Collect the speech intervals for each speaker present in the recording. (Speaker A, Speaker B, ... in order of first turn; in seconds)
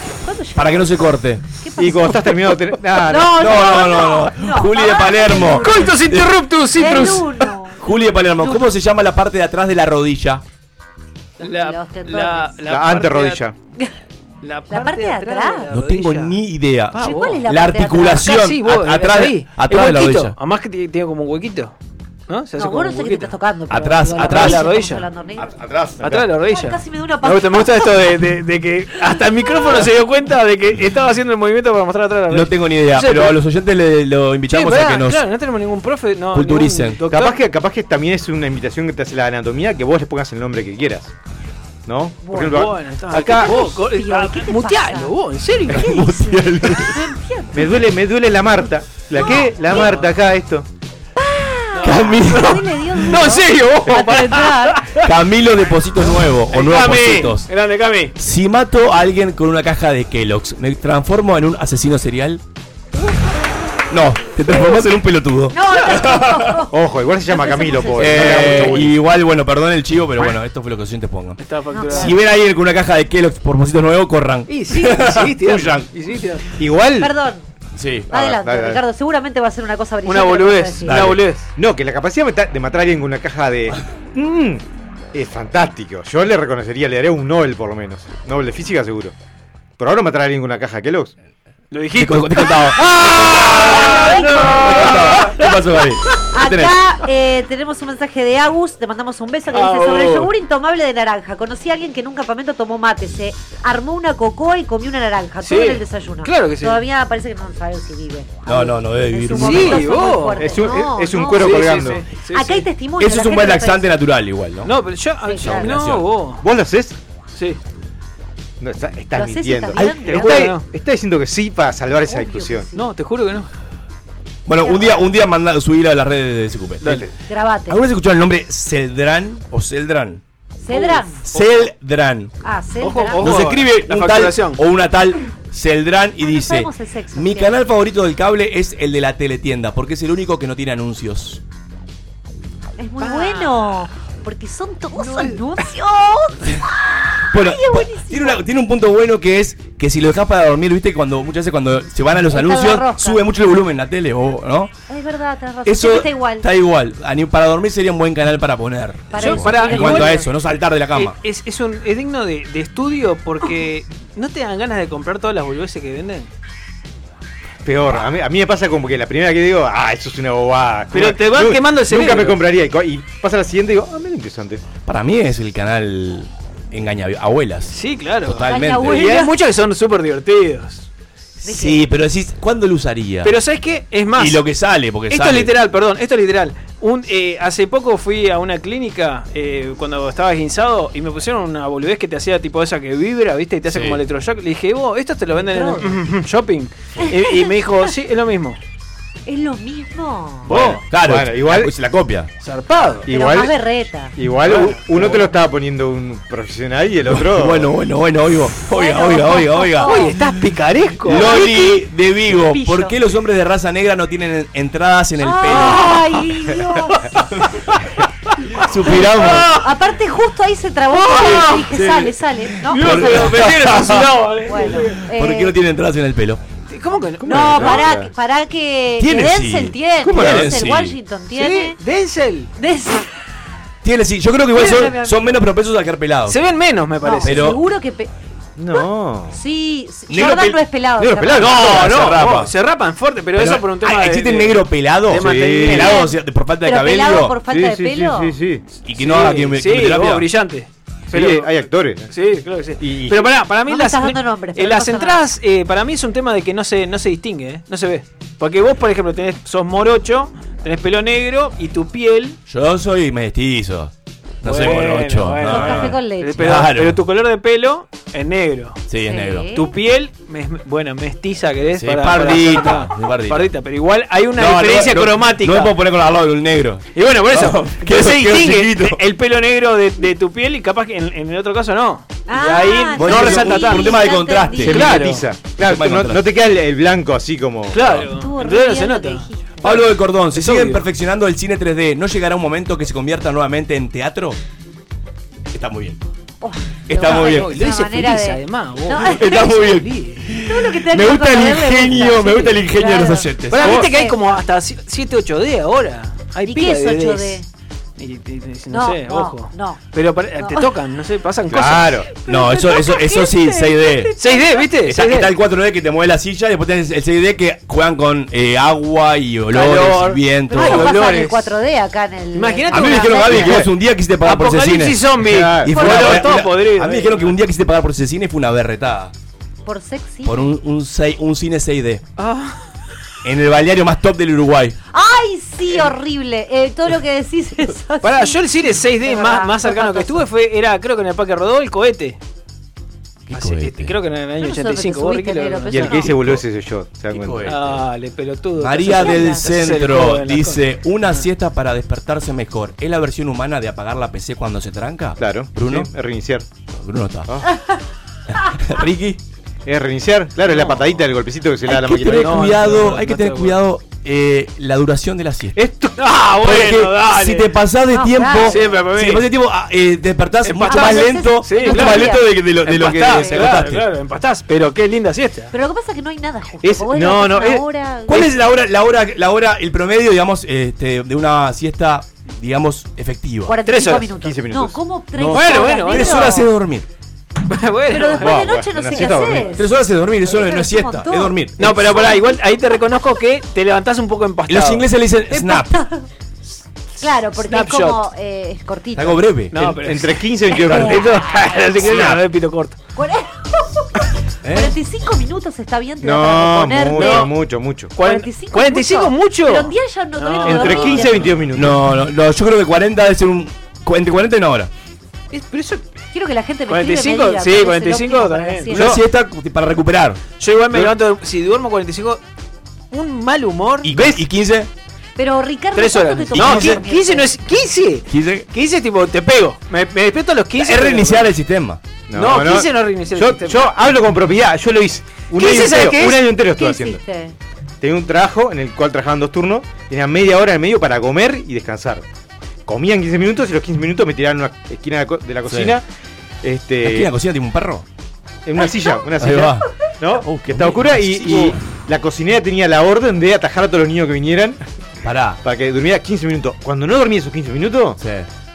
Speaker A: 0.2-1.1, 1.6-2.4, 3.0-6.0, 6.8-7.8, 8.4-8.7, 11.4-12.6, 14.7-15.7, 16.9-18.4, 22.6-25.5, 26.4-27.9, 29.1-29.7, 42.2-42.6, 43.1-45.1, 45.7-47.8, 49.1-49.8, 51.2-54.9, 64.5-64.8, 65.5-66.8, 67.3-68.9, 71.7-72.1, 77.0-77.4, 78.1-81.0, 93.5-95.1, 96.3-113.9, 115.2-115.7, 119.1-120.5, 122.1-122.9, 124.6-125.1, 127.3-127.8, 130.6-131.2, 132.4-133.5, 136.2-137.6, 142.8-148.4, 152.3-153.2, 154.9-156.5, 159.1-160.2, 178.4-179.3, 181.4-181.8, 195.3-196.0, 197.0-197.9, 199.2-200.5, 203.1-204.1, 208.7-210.1, 211.1-211.8, 212.3-212.9, 215.2-217.1, 218.9-223.4, 224.4-225.5, 227.2-231.8, 232.6-233.1, 234.5-235.3, 237.0-238.1, 238.7-241.5, 245.8-248.4, 253.7-255.2, 265.5-266.5, 269.1-269.6, 282.3-284.8, 288.1-289.6, 296.4-299.5, 300.4-304.2, 306.4-307.4, 308.7-309.8, 310.4-310.7, 312.3-313.4, 320.5-323.6, 325.8-326.1, 329.6-330.5, 334.9-340.2, 344.4-346.1, 348.9-349.5, 367.9-368.7, 370.7-372.4, 373.0-373.5, 375.5-378.3, 383.5-386.5, 387.9-389.7, 390.2-392.4, 395.3-396.0, 397.0-399.2, 400.5-401.1, 402.9-407.3, 408.0-411.4, 416.1-418.8, 425.2-427.3, 436.5-437.3
Speaker B: 0.6-1.4, 3.4-6.9, 7.8-10.4, 15.7-20.3, 23.7-24.6, 25.4-25.9, 32.3-35.2, 36.3-37.0, 45.7-47.0, 51.8-52.7, 55.0-57.5, 58.2-62.4, 63.9-66.5, 68.0-75.9, 77.7-78.1, 80.8-81.2, 91.9-96.8, 108.5-110.1, 113.0-114.8, 115.4-116.1, 124.5-127.1, 127.7-130.2, 131.3-132.3, 133.2-141.4, 147.3-154.7, 155.7-161.2, 174.8-179.2, 181.4-183.3, 184.2-185.5, 193.7-194.0, 200.5-202.3, 207.1-210.2, 211.0-216.2, 218.6-219.5, 221.7-226.4, 229.0-231.0, 233.8-236.4, 237.2-237.6, 240.1-240.6, 241.4-242.5, 243.3-247.4, 248.8-250.3, 262.5-267.0, 268.9-269.5, 271.8-273.5, 274.4-279.0, 283.0-286.3, 287.7-288.1, 289.6-294.4, 295.5-296.0, 296.9-297.6, 299.0-303.9, 312.2-314.2, 314.8-321.0, 322.7-325.1, 325.6-329.1, 330.2-332.0, 333.2-334.8, 343.3-343.9, 345.9-346.4, 347.1-347.8, 348.6-355.9, 356.7-357.3, 358.3-359.2, 361.6-365.6, 366.4-373.9, 378.1-383.6, 385.2-386.8, 389.5-391.9, 394.5-395.7, 398.9-399.8, 401.8-402.2, 404.4-404.7, 411.5-414.7, 418.7-420.2, 423.8-424.7, 426.3-426.8, 428.1-428.4, 430.6-431.8, 445.4-445.8, 446.8-447.8, 449.2-449.6, 450.2-451.6, 455.0-455.4, 458.0-458.3
Speaker C: 1.8-3.4, 12.7-13.5, 25.6-26.1, 37.1-41.1, 41.9-43.6, 47.5-50.7, 66.7-68.9, 76.6-77.2, 78.1-78.8, 81.6-89.1, 89.8-91.1, 110.4-112.0, 116.4-117.0, 118.6-122.7, 167.6-174.6, 200.5-201.7, 203.1-203.6, 204.1-207.7, 227.3-228.1, 230.2-230.5, 238.6-239.4, 241.0-242.0, 245.1-245.9, 247.5-248.8, 251.1-252.1, 252.8-253.3, 284.6-287.8, 311.5-312.1, 323.3-323.7, 325.2-326.2, 345.7-347.6, 355.2-356.4, 359.6-362.8, 365.6-366.0, 376.6-377.6, 384.1-384.8, 388.2-389.6, 399.8-401.2, 406.0-407.9, 410.4-411.8, 418.7-419.0, 432.1-437.0, 437.8-442.0, 442.6-445.8, 446.4-447.1, 448.4-454.6, 455.4-458.0
Speaker D: 5.3-7.5, 11.4-13.4, 14.4-16.4, 16.9-17.4, 18.1-21.7, 22.3-23.3, 24.1-25.1, 26.0-33.4, 34.5-37.4, 42.4-46.0, 49.7-50.0, 51.7-55.1, 56.5-58.1, 71.4-72.1, 74.5-76.5, 80.0-81.5, 91.7-95.5, 99.5-100.3, 105.4-106.8, 109.3-112.7, 114.6-116.4, 119.9-120.6, 122.7-123.5, 126.8-127.1, 130.7-131.7, 132.8-134.6, 143.0-143.6, 144.9-145.4, 159.1-160.3, 160.9-166.3, 170.9-172.4, 177.7-180.9, 183.2-184.4, 185.1-198.6, 200.5-200.8, 202.4-203.1, 204.4-205.3, 209.8-211.4, 218.6-219.7, 220.9-221.9, 222.7-225.1, 226.7-227.8, 231.3-232.5, 236.3-237.5, 241.3-246.0, 248.9-262.4, 264.4-268.8, 269.5-275.7, 276.9-284.0, 284.6-285.3, 287.7-290.8, 296.9-300.3, 303.5-307.4, 308.0-315.3, 319.5-321.5, 322.3-323.6, 324.2-327.4, 332.2-332.6, 338.0-342.2, 343.3-346.3, 347.4-350.6, 360.5-360.8, 362.1-363.6, 366.0-367.5, 368.4-369.3, 370.4-375.5, 383.6-384.1, 385.3-386.3, 387.5-389.2, 391.6-394.9, 397.3-398.0, 399.5-402.8, 406.9-407.3, 407.9-411.4, 415.3-415.9, 416.7-418.9, 420.4-422.2, 422.9-424.1, 425.7-431.3, 432.1-433.7, 435.3-436.3